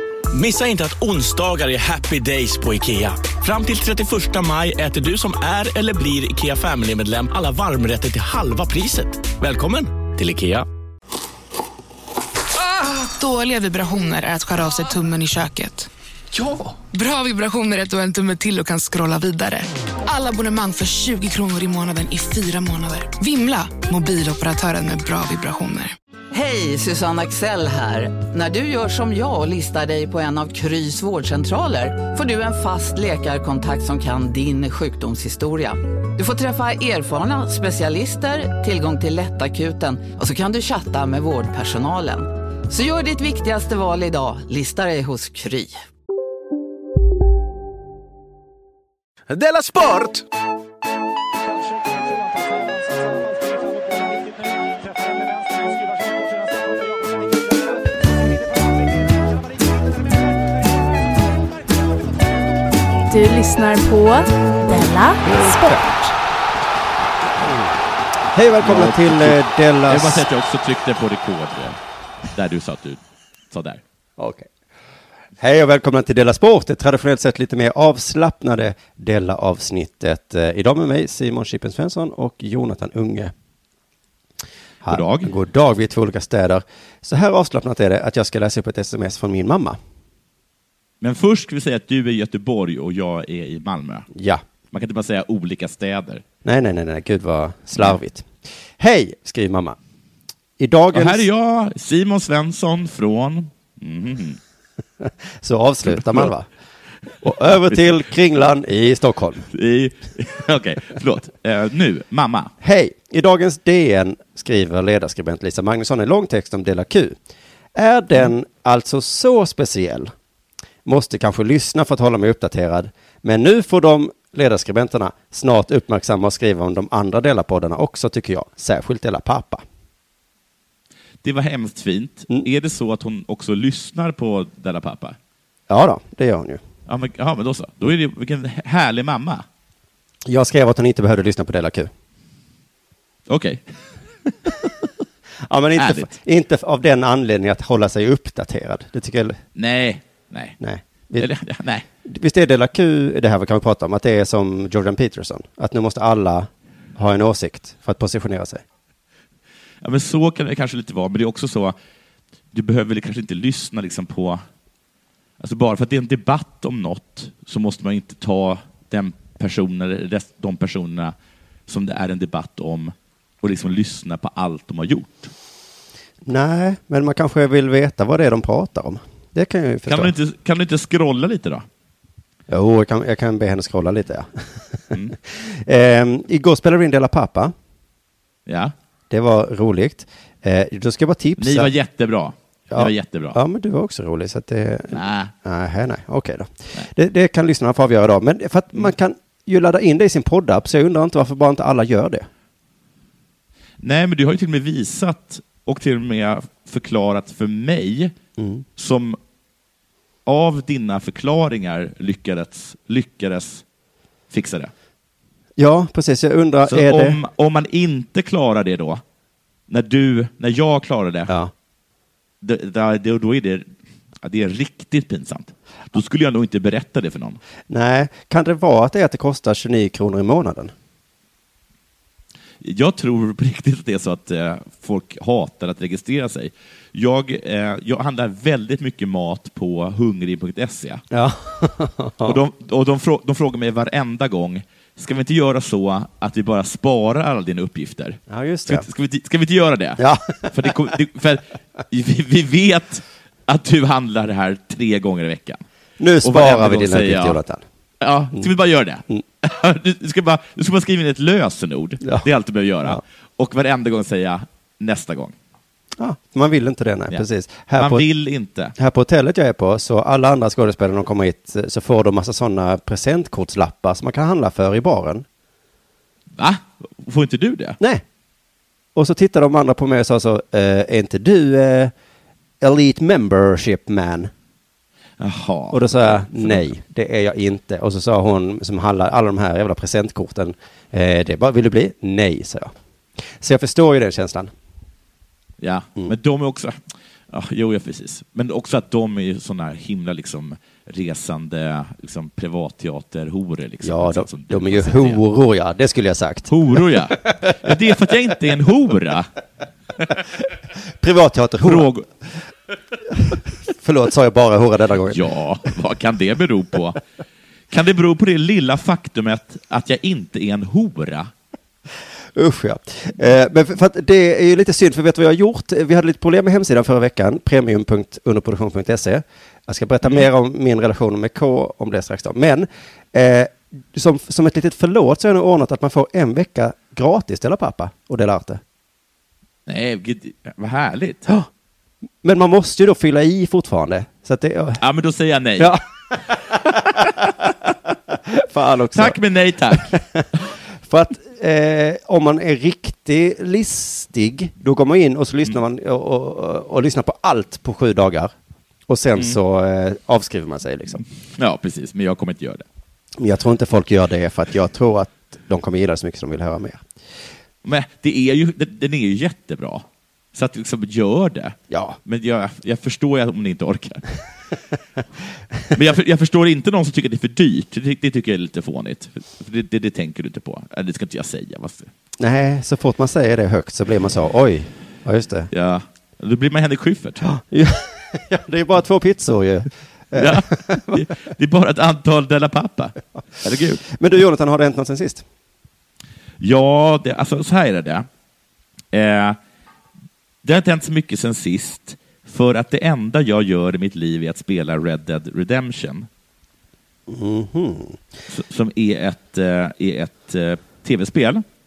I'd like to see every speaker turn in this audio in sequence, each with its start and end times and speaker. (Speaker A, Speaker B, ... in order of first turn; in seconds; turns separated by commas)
Speaker A: 0.3-10.7, Speaker B: 13.2-15.9, Speaker A: 16.4-16.7, Speaker B: 16.9-25.9, Speaker C: 26.3-45.8, Speaker A: 49.3-50.2, Speaker D: 63.1-65.9, Speaker E: 65.2-65.8, Speaker E: 67.4-67.7, Speaker E: 68.3-70.2, Speaker F: 68.6-71.8, Speaker F: 72.3-73.8, Speaker E: 74.2-74.5, Speaker E: 75.4-83.3, Speaker E: 84.8-89.8, Speaker F: 84.9-85.3, Speaker F: 91.0-94.1, Speaker E: 94.1-94.4, Speaker F: 94.7-96.2, Speaker E: 96.4-99.8, Speaker E: 100.6-101.2, Speaker F: 100.9-104.4, Speaker E: 105.0-106.5, Speaker F: 105.9-106.3, Speaker E: 107.2-109.4, Speaker F: 107.2-107.8, Speaker F: 109.5-112.5, Speaker E: 112.6-117.2, Speaker E: 117.7-120.1, Speaker E: 120.8-129.6, Speaker F: 131.2-135.2, Speaker E: 135.7-136.6, Speaker F: 136.9-139.4, Speaker E: 140.2-141.9, Speaker F: 143.3-143.6, Speaker F: 144.2-144.7, Speaker E: 145.4-149.4, Speaker F: 145.8-146.1, Speaker F: 149.6-150.6, Speaker E: 150.6-151.3, Speaker F: 151.2-151.8, Speaker E: 152.0-158.6, Speaker F: 159.8-161.8, Speaker F: 162.5-164.4, Speaker F: 165.4-171.1, Speaker F: 171.7-175.3, Speaker E: 176.2-180.1, Speaker F: 179.9-181.7, Speaker E: 182.5-187.5, Speaker F: 188.5-188.7, Speaker E: 189.1-191.7, Speaker F: 191.4-193.4, Speaker E: 192.7-202.3, Speaker F: 194.9-195.3, Speaker F: 203.8-208.1, Speaker E: 208.4-208.6, Speaker F: 208.8-209.2, Speaker F: 210.2-213.6, Speaker F: 214.3-214.7, Speaker E: 215.6-217.2, Speaker F: 216.6-219.0, Speaker F: 219.7-221.3, Speaker F: 222.4-223.7, Speaker F: 224.2-227.4, Speaker E: 227.7-230.7, Speaker F: 232.6-241.0, Speaker E: 241.1-242.4, Speaker F: 242.2-255.6, Speaker E: 248.3-248.8, Speaker E: 250.0-250.7, Speaker E: 256.0-257.6, Speaker F: 256.2-257.4, Speaker F: 258.0-265.3, Speaker E: 266.0-268.1, Speaker F: 267.8-268.7, Speaker E: 268.8-275.2, Speaker F: 276.4-277.8, Speaker E: 278.9-281.9, Speaker E: 282.6-284.3, Speaker F: 285.2-286.7, Speaker E: 285.7-292.7, Speaker E: 293.4-294.5, Speaker F: 295.6-296.7, Speaker F: 297.3-305.2, Speaker E: 303.8-307.7, Speaker F: 306.5-309.3, Speaker E: 310.9-311.9, Speaker F: 311.6-312.1, Speaker E: 313.1-315.2, Speaker F: 315.1-317.0, Speaker F: 317.7-321.3, Speaker E: 322.4-338.6, Speaker F: 339.6-341.2, Speaker E: 342.2-344.8, Speaker F: 344.8-345.7, Speaker E: 345.6-345.8, Speaker E: 346.3-347.1, Speaker F: 346.7-347.5, Speaker E: 348.1-349.2, Speaker F: 348.9-350.0, Speaker E: 349.7-350.2, Speaker E: 350.9-358.3, Speaker E: 358.9-361.0, Speaker F: 361.4-362.6, Speaker E: 363.2-366.9, Speaker F: 367.6-374.0, Speaker E: 371.7-372.0, Speaker F: 375.7-381.9, Speaker E: 382.2-385.5, Speaker F: 385.5-387.2, Speaker E: 387.2-391.1, Speaker F: 390.1-393.8, Speaker E: 393.9-395.2, Speaker F: 396.4-398.1, Speaker F: 398.9-399.4, Speaker F: 400.4-406.1, Speaker E: 407.1-408.0, Speaker F: 408.3-411.4